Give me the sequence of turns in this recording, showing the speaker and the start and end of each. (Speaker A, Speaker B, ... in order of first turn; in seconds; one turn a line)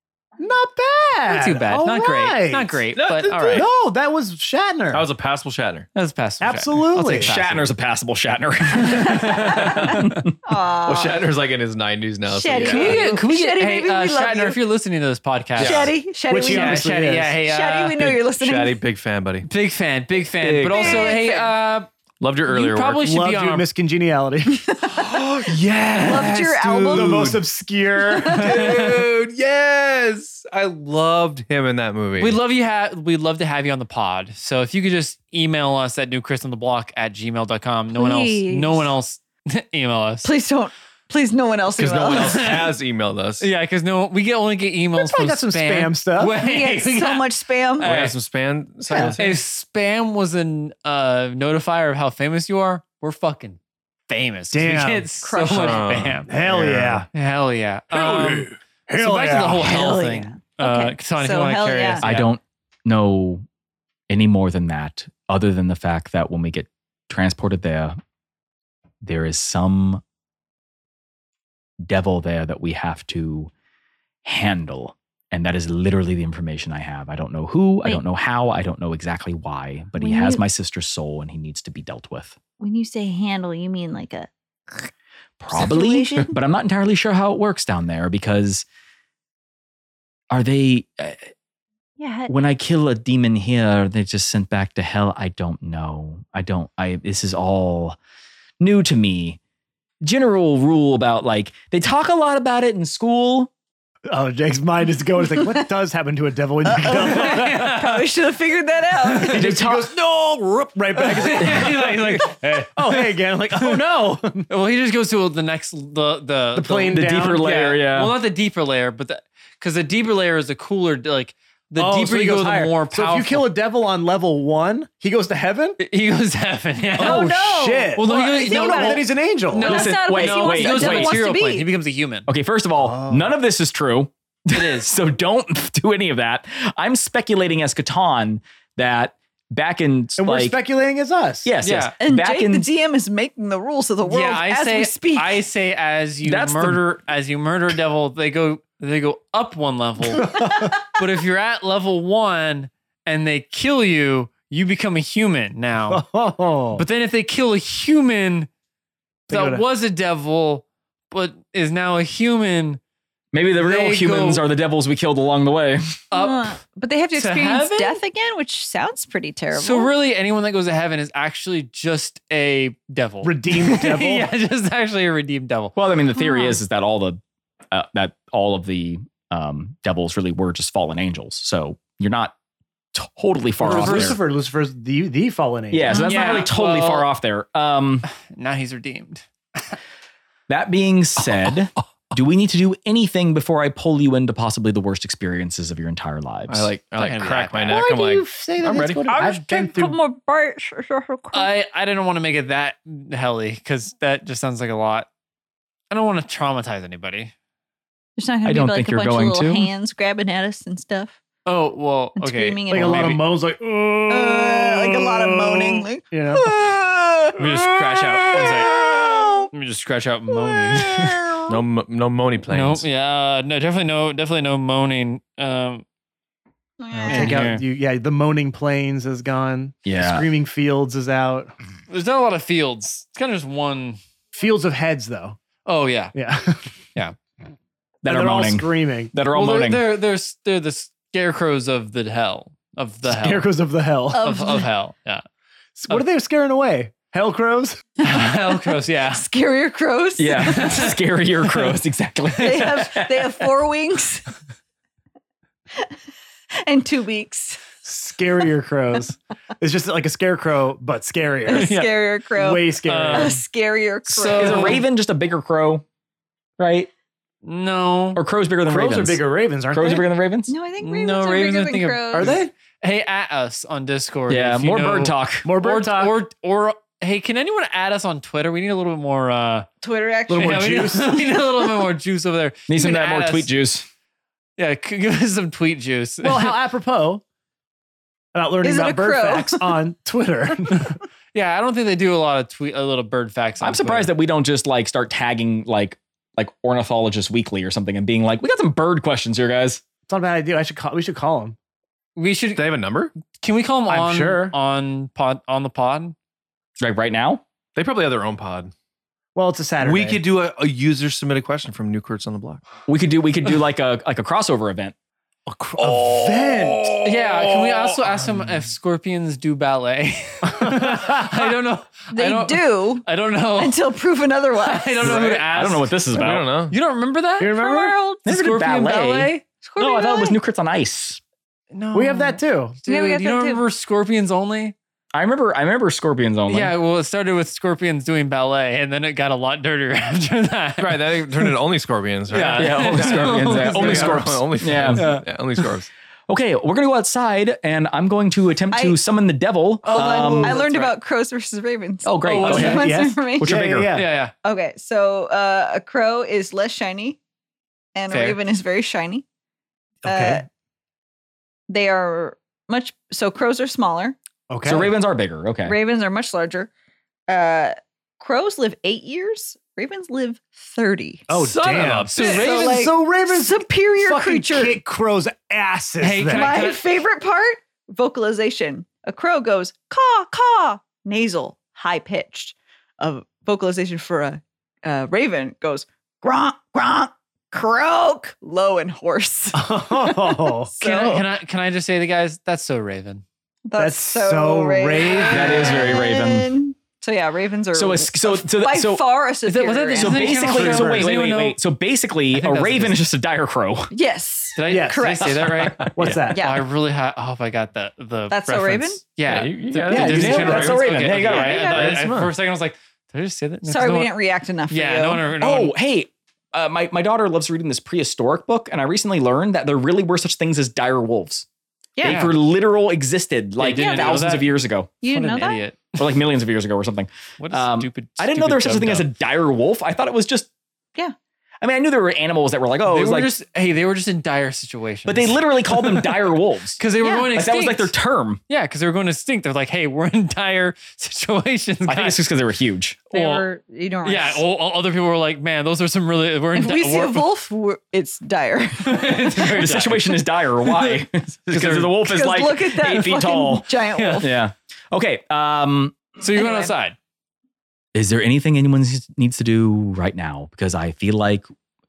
Speaker A: 0.4-2.8
Speaker B: 1.2-3.6
Speaker C: 2.9-3.7
Speaker A: 3.5-5.0
Speaker C: 4.9-5.9
Speaker B: 5.9-7.7
Speaker A: 6.4-7.3
Speaker D: 7.2-10.3
Speaker B: 8.9-10.2
Speaker E: 10.4-11.2
Speaker C: 10.8-13.1
Speaker E: 12.3-14.6
Speaker B: 12.6-18.1
Speaker C: 15.6-15.9
Speaker E: 15.6-18.8
Speaker A: 16.3-17.4
Speaker C: 18.0-19.5
Speaker B: 19.4-21.9
Speaker E: 20.7-21.5
Speaker C: 22.2-23.0
Speaker B: 22.4-23.7
Speaker A: 23.0-24.6
Speaker E: 24.4-27.2
Speaker C: 24.9-27.4
Speaker A: 26.8-28.8
Speaker E: 28.1-28.9
Speaker C: 28.2-32.4
Speaker B: 32.2-40.3
Speaker E: 37.9-38.9
Speaker E: 40.2-42.5
Speaker C: 41.7-43.5
Speaker B: 42.1-42.7
Speaker B: 43.4-47.3
Speaker A: 44.9-46.4
Speaker E: 46.3-47.9
Speaker B: 47.8-48.1
Speaker C: 47.8-49.4
Speaker A: 48.9-49.1
Speaker B: 49.2-56.3
Speaker A: 54.5-55.1
Speaker E: 55.2-56.0
Speaker C: 55.5-57.0
Speaker A: 56.3-57.1
Speaker B: 57.1-62.3
Speaker C: 58.0-58.5
Speaker A: 58.9-59.7
Speaker E: 59.6-62.0
Speaker D: 62.0-63.4
Speaker D: 64.1-68.0
Speaker D: 69.0-70.0
Speaker D: 71.8-73.5
Speaker D: 74.2-82.4
Speaker E: 80.0-80.4
Speaker E: 82.6-84.9
Speaker D: 85.4-88.6
Speaker E: 85.5-86.3
Speaker D: 90.3-91.3
Speaker E: 92.0-92.3
Speaker D: 92.3-98.0
Speaker D: 98.6-99.4
Speaker D: 100.0-103.5
Speaker A: 104.1-107.9
Speaker E: 105.3-105.6
Speaker E: 106.6-109.4
Speaker B: 107.1-107.9
Speaker A: 109.2-114.5
Speaker D: 109.2-109.9
Speaker B: 111.0-113.7
Speaker D: 111.4-111.7
Speaker B: 114.5-123.5
Speaker A: 116.5-117.5
Speaker D: 116.9-118.2
Speaker A: 121.8-125.8
Speaker B: 125.8-127.3
Speaker A: 127.0-129.7
Speaker E: 127.0-131.7
Speaker B: 127.9-132.3
Speaker D: 129.6-131.2
Speaker D: 132.3-140.6
Speaker A: 132.8-133.3
Speaker B: 134.5-134.9
Speaker A: 140.2-141.5
Speaker D: 141.4-142.7
Speaker B: 141.6-141.9
Speaker E: 142.0-145.4
Speaker B: 144.1-156.0
Speaker D: 146.2-146.9
Speaker A: 150.1-150.7
Speaker A: 155.9-156.8
Speaker B: 156.7-158.5
Speaker A: 159.3-159.6
Speaker B: 159.3-162.8
Speaker D: 163.3-166.0
Speaker B: 163.6-164.4
Speaker B: 166.1-166.6
Speaker E: 166.1-169.9
Speaker B: 167.1-168.0
Speaker B: 169.5-175.7
Speaker A: 173.2-174.3
Speaker D: 175.8-177.2
Speaker E: 176.1-176.6
Speaker D: 177.7-182.3
Speaker D: 182.9-184.2
Speaker A: 183.6-186.0
Speaker B: 183.7-184.1
Speaker D: 185.7-188.1
Speaker E: 185.9-186.4
Speaker B: 185.9-187.1
Speaker B: 188.1-189.8
Speaker D: 190.5-196.7
Speaker C: 196.5-199.0
Speaker B: 197.0-197.9
Speaker A: 197.7-200.0
Speaker E: 199.1-201.5
Speaker B: 201.3-205.1
Speaker B: 205.9-207.3
Speaker E: 208.2-211.2
Speaker D: 208.4-209.7
Speaker B: 211.4-213.2
Speaker E: 212.2-213.2
Speaker A: 212.7-216.5
Speaker E: 214.1-217.4
Speaker B: 217.3-218.8
Speaker E: 218.3-219.5
Speaker A: 218.4-219.3
Speaker B: 219.5-221.2
Speaker E: 220.6-221.5
Speaker C: 221.5-222.8
Speaker B: 222.5-225.8
Speaker E: 226.8-227.5
Speaker A: 226.9-231.5
Speaker B: 227.0-227.6
Speaker D: 229.8-230.2
Speaker B: 231.9-234.0
Speaker A: 234.3-235.4
Speaker B: 235.7-236.1
Speaker A: 236.1-236.7
Speaker D: 238.0-239.8
Speaker A: 238.0-239.1
Speaker B: 239.3-243.5
Speaker A: 243.0-244.2
Speaker E: 244.1-244.7
Speaker B: 244.1-245.2
Speaker A: 245.8-247.8
Speaker B: 248.0-249.2
Speaker E: 249.1-250.9
Speaker D: 250.2-253.4
Speaker B: 250.4-251.0
Speaker B: 252.3-252.8
Speaker E: 252.4-254.2
Speaker E: 256.6-257.7
Speaker A: 257.8-261.7
Speaker E: 261.4-264.8
Speaker B: 261.5-262.0
Speaker A: 262.3-263.4
Speaker B: 262.8-263.4
Speaker B: 264.1-264.8
Speaker D: 264.3-265.8
Speaker D: 266.6-266.9
Speaker B: 267.4-268.2
Speaker D: 268.1-270.5
Speaker A: 268.6-270.1
Speaker E: 270.5-272.4
Speaker B: 270.8-279.7
Speaker A: 272.1-272.5
Speaker D: 274.3-275.5
Speaker A: 275.4-276.1
Speaker E: 279.8-281.2
Speaker A: 280.3-281.2
Speaker B: 280.3-283.5
Speaker D: 282.7-283.9
Speaker B: 284.6-286.6
Speaker A: 286.2-287.2
Speaker A: 288.3-291.0
Speaker E: 288.6-289.8
Speaker B: 291.3-294.1
Speaker D: 293.6-299.8
Speaker A: 300.1-301.6
Speaker B: 302.1-302.6
Speaker C: 302.6-303.1
Speaker B: 303.3-306.1
Speaker A: 303.9-304.5
Speaker D: 306.8-307.4
Speaker C: 307.7-308.7
Speaker A: 309.3-310.2
Speaker C: 309.8-312.6
Speaker D: 312.9-314.9
Speaker A: 315.5-317.0
Speaker C: 315.8-318.5
Speaker B: 317.0-323.8
Speaker A: 320.5-321.4
Speaker E: 322.1-325.1
Speaker B: 324.6-326.0
Speaker D: 325.0-326.5
Speaker C: 326.1-326.7
Speaker B: 326.7-327.6
Speaker A: 327.4-328.0
Speaker E: 327.5-328.2
Speaker B: 328.2-329.4
Speaker D: 328.2-331.2
Speaker E: 329.6-330.4
Speaker B: 331.7-334.7
Speaker A: 331.9-332.8
Speaker E: 332.9-333.6
Speaker D: 335.1-336.7
Speaker B: 336.5-341.5
Speaker C: 340.8-345.9
Speaker B: 342.3-345.2
Speaker D: 342.5-345.1
Speaker D: 346.3-350.6
Speaker E: 348.7-349.0
Speaker B: 349.8-350.9
Speaker E: 349.9-353.5
Speaker D: 352.0-354.0
Speaker B: 352.2-352.9
Speaker A: 352.5-354.1
Speaker B: 353.9-354.3
Speaker E: 354.4-357.2
Speaker E: 357.9-359.2
Speaker B: 358.1-358.4
Speaker A: 360.0-360.4
Speaker E: 360.0-360.4
Speaker E: 361.7-364.1
Speaker A: 364.5-364.9
Speaker D: 364.6-365.8
Speaker E: 365.6-366.7
Speaker E: 367.3-371.3
Speaker A: 371.3-376.6
Speaker C: 371.4-372.4
Speaker B: 371.5-372.9
Speaker E: 372.2-374.8
Speaker B: 376.0-376.8
Speaker E: 376.3-391.3
Speaker A: 389.5-390.7
Speaker B: 390.8-393.2
Speaker E: 393.6-400.6
Speaker A: 393.8-395.8
Speaker D: 395.2-396.5
Speaker D: 397.7-399.0
Speaker B: 399.4-401.6
Speaker D: 399.9-403.9
Speaker A: 400.4-401.1
Speaker B: 402.3-403.0
Speaker E: 403.9-405.5
Speaker B: 404.5-414.1
Speaker A: 404.7-406.5
Speaker C: 405.7-406.1
Speaker E: 406.3-406.6
Speaker E: 408.3-409.0
Speaker C: 409.2-412.3
Speaker A: 409.9-410.8
Speaker D: 409.9-411.6
Speaker E: 411.2-412.0
Speaker E: 413.6-415.3
Speaker B: 414.7-415.7
Speaker D: 415.4-421.4
Speaker E: 422.0-422.3
Speaker B: 422.0-422.4
Speaker D: 422.0-424.9
Speaker B: 423.6-424.5
Speaker E: 423.7-424.3
Speaker E: 425.0-425.6
Speaker B: 425.0-426.1
Speaker D: 426.0-430.5
Speaker B: 427.4-429.1
Speaker D: 431.6-433.3
Speaker B: 432.9-437.9
Speaker D: 435.1-438.4
Speaker E: 437.0-437.3
Speaker B: 438.5-442.3
Speaker D: 441.9-443.1
Speaker E: 443.1-444.4
Speaker B: 443.1-443.5
Speaker B: 444.0-447.3
Speaker E: 446.5-449.6
Speaker B: 448.8-452.0
Speaker D: 449.4-453.7
Speaker E: 452.0-454.4
Speaker B: 453.9-454.3
Speaker D: 454.2-456.0
Speaker B: 456.2-456.9
Speaker E: 456.3-456.7
Speaker D: 457.9-461.5